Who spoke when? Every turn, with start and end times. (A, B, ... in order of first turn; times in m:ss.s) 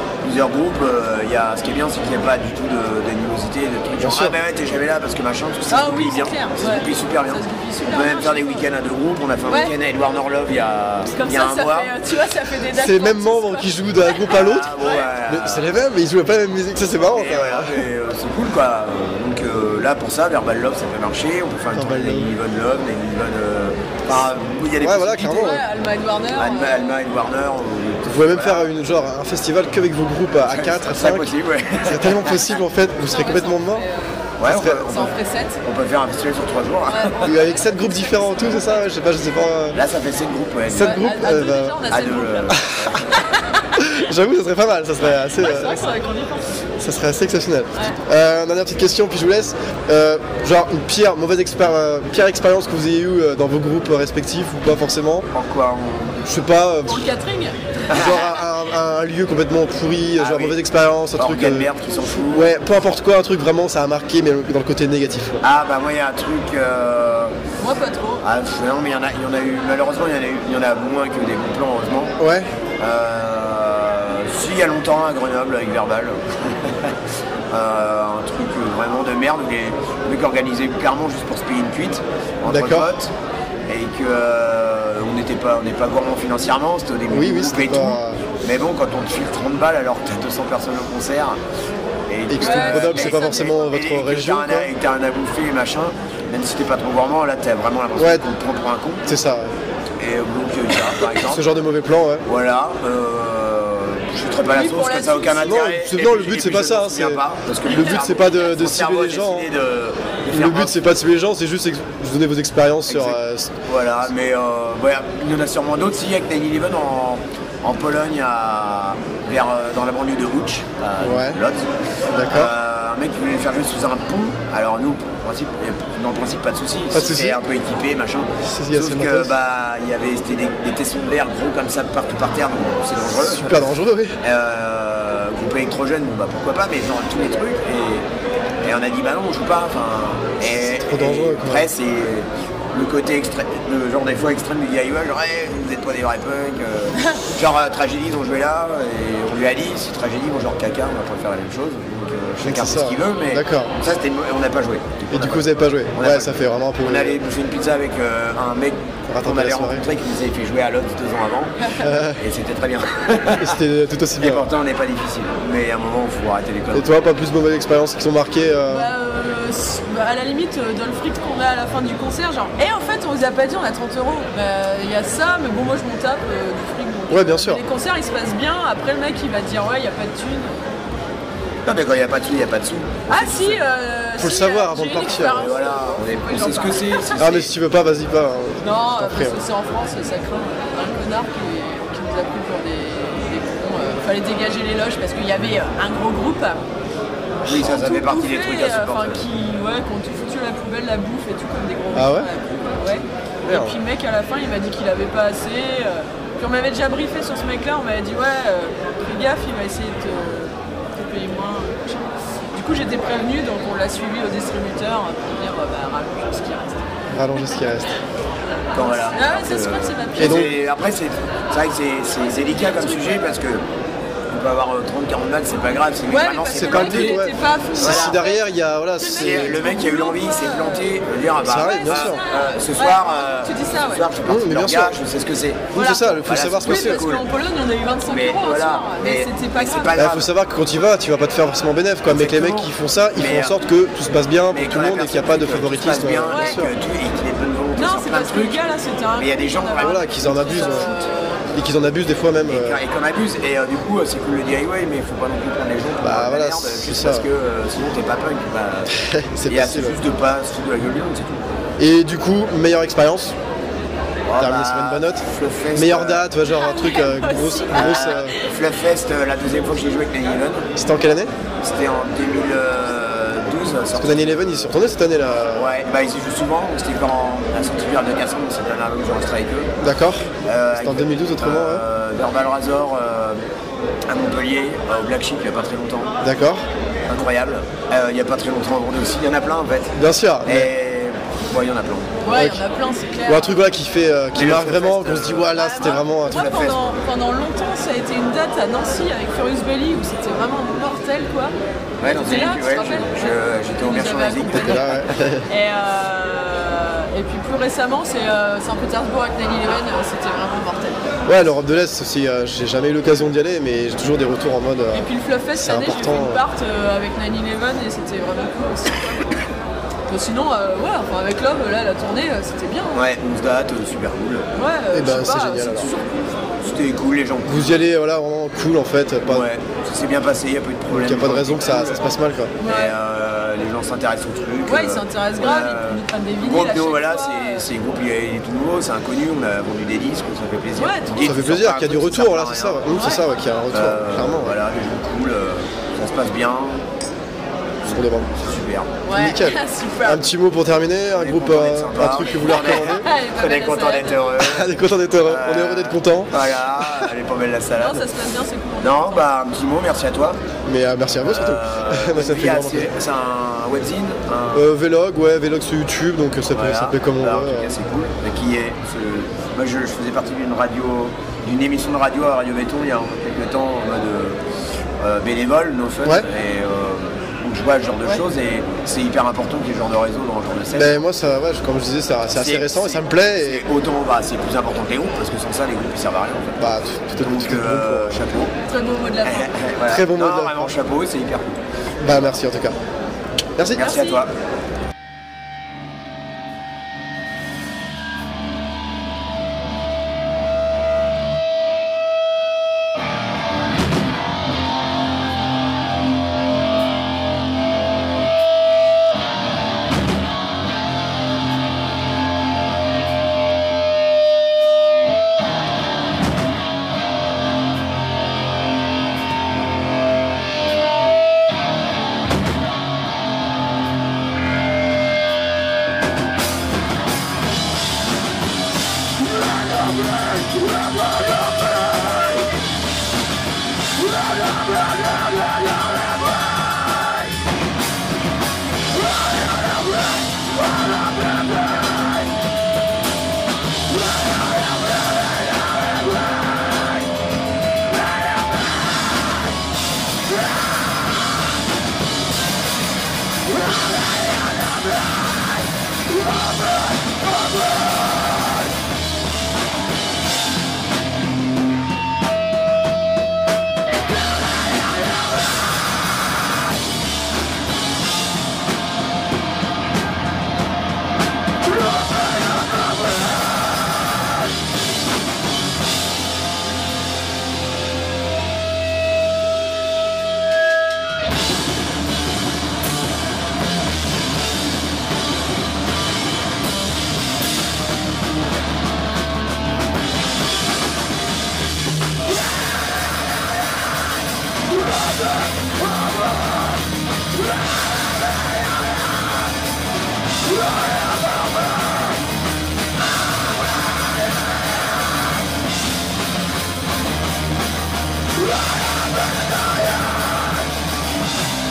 0:00.2-0:11.9 A
0:04.0-0:04.4 B
0:05.7-0:08.6 C
0:11.1-0:15.0 C
0:12.7-0:17.8 B
0:14.3-0:15.7 A
0:17.1-0:25.6 A
0:21.7-0:22.3 B
0:24.8-0:25.6 B
0:25.2-0:27.1 C
0:26.3-0:28.7 A
0:28.0-0:31.3 B
0:30.4-0:32.4 A
0:31.8-0:33.8 B
0:33.0-0:35.6 C
0:34.4-0:37.2 A
0:34.4-0:34.8 B
0:36.9-0:38.9 C
0:37.2-0:39.8 B
0:39.7-0:41.0 A
0:40.7-0:41.8 B
0:40.8-0:43.6 C
0:41.9-0:43.2 A
0:43.8-0:45.8 B
0:45.1-0:46.6 C
0:46.8-0:55.3 B
0:47.7-0:48.0 C
0:55.3-0:56.2 A
0:56.2-0:57.1 B
0:56.8-0:57.6 C
0:57.8-0:58.3 A
0:57.9-1:01.7 B
1:00.2-1:00.6 A
1:01.2-1:02.5 A
1:02.2-1:05.4 B
1:05.4-1:07.4 A
1:07.6-1:08.2 C
1:08.2-1:12.2 A
1:12.2-1:12.5 B
1:12.8-1:17.0 A
1:17.5-1:23.1 A
1:22.4-1:22.9 B
1:23.7-1:31.4 A
1:27.1-1:28.2 B
1:32.1-1:39.3 A
1:32.3-1:34.7 B
1:32.4-1:33.8 C
1:38.0-1:38.3 B
1:39.0-1:39.5 B
1:40.0-1:41.4 A
1:41.1-1:42.2 B
1:42.2-1:50.9 A
1:44.4-1:45.6 C
1:45.3-1:49.5 B
1:50.3-1:53.6 B
1:52.9-2:13.6 A
2:01.0-2:01.4 B
2:02.1-2:02.5 B
2:06.9-2:07.4 B
2:08.4-2:09.3 B
2:13.0-2:14.2 B
2:14.2-2:18.0 A
2:18.6-2:41.6 A
2:20.5-2:21.7 B
2:32.4-2:33.7 B
2:35.1-2:37.2 B
2:39.1-2:39.9 B
2:41.8-2:42.2 B
2:42.1-2:43.6 A
2:43.4-2:44.5 B
2:44.2-2:46.9 A
2:46.7-2:48.9 B
2:48.6-3:00.7 C
2:57.1-2:57.6 B
3:01.6-3:03.5 A
3:03.1-3:07.4 C
3:03.1-3:03.6 B
3:04.2-3:05.5 B
3:05.3-3:07.5 A
3:07.2-3:09.4 B
3:08.6-3:16.6 C
3:17.4-3:19.2 A
3:17.4-3:36.9 C
3:21.9-3:22.3 B
3:23.4-3:23.8 B
3:37.1-3:37.9 B
3:38.7-3:43.6 A
3:38.8-3:40.5 C
3:40.2-3:40.5 B
3:42.5-3:43.3 C
3:44.3-3:47.3 A
3:46.1-3:50.9 C
3:46.5-3:49.6 B
3:47.8-3:48.2 A
3:49.1-3:57.2 A
3:51.4-3:52.2 B
3:51.5-3:54.1 C
3:54.3-3:55.0 B
3:55.7-3:57.0 B
3:55.7-3:59.9 C
3:58.1-4:00.3 A
3:59.9-4:06.7 B
4:02.1-4:03.6 A
4:04.5-4:08.6 A
4:06.3-4:06.7 C
4:07.8-4:11.5 C
4:09.2-4:11.0 A
4:09.8-4:10.9 B
4:11.5-4:12.8 B
4:12.4-4:21.5 A
4:16.0-4:17.3 B
4:18.9-4:20.0 B
4:21.8-4:23.3 B
4:24.2-4:26.2 A
4:24.4-4:28.4 B
4:26.4-4:28.4 C
4:27.7-4:30.7 A
4:30.8-4:31.3 B
4:31.6-4:34.8 A
4:33.9-4:35.7 B
4:35.5-4:39.7 A
4:39.8-4:41.8 B
4:40.4-4:43.4 A
4:44.1-4:46.2 A
4:46.2-4:46.6 B
4:47.0-4:52.2 A
4:49.9-4:50.7 B
4:52.2-4:53.6 C
4:52.2-4:52.6 B
4:53.2-4:56.7 B
4:54.3-4:57.0 A
4:55.5-5:01.5 C
5:02.0-5:04.9 A
5:02.1-5:11.1 C
5:04.5-5:05.5 B
5:11.3-5:16.4 B
5:14.9-5:19.5 C
5:20.1-5:23.0 C
5:22.9-5:24.4 A
5:24.5-5:26.6 C
5:24.9-5:25.9 B
5:26.6-5:27.8 A
5:27.4-5:29.5 B
5:29.2-5:43.0 A
5:30.9-5:32.5 B
5:32.6-5:33.0 C
5:34.6-5:37.7 C
5:40.8-5:41.4 C
5:41.2-5:44.5 B
5:42.9-5:43.3 C
5:43.7-5:46.8 A
5:47.8-5:48.9 A
5:47.8-5:48.3 B
5:49.0-5:50.3 C
5:49.1-5:53.1 B
5:51.1-5:58.0 A
5:52.3-5:54.3 C
5:54.4-5:57.1 B
5:57.8-5:59.3 C
5:58.8-6:00.4 A
6:00.6-6:03.0 B
6:01.2-6:04.7 A
6:04.5-6:07.7 B
6:06.5-6:14.4 A
6:15.0-6:21.0 A
6:20.7-6:23.6 B
6:22.3-6:28.5 A
6:26.6-6:28.2 B
6:28.6-6:29.5 C
6:29.2-6:31.6 A
6:29.9-6:30.7 B
6:32.0-6:32.8 B
6:33.6-6:33.8 B
6:33.8-6:34.3 A
6:33.8-6:34.2 C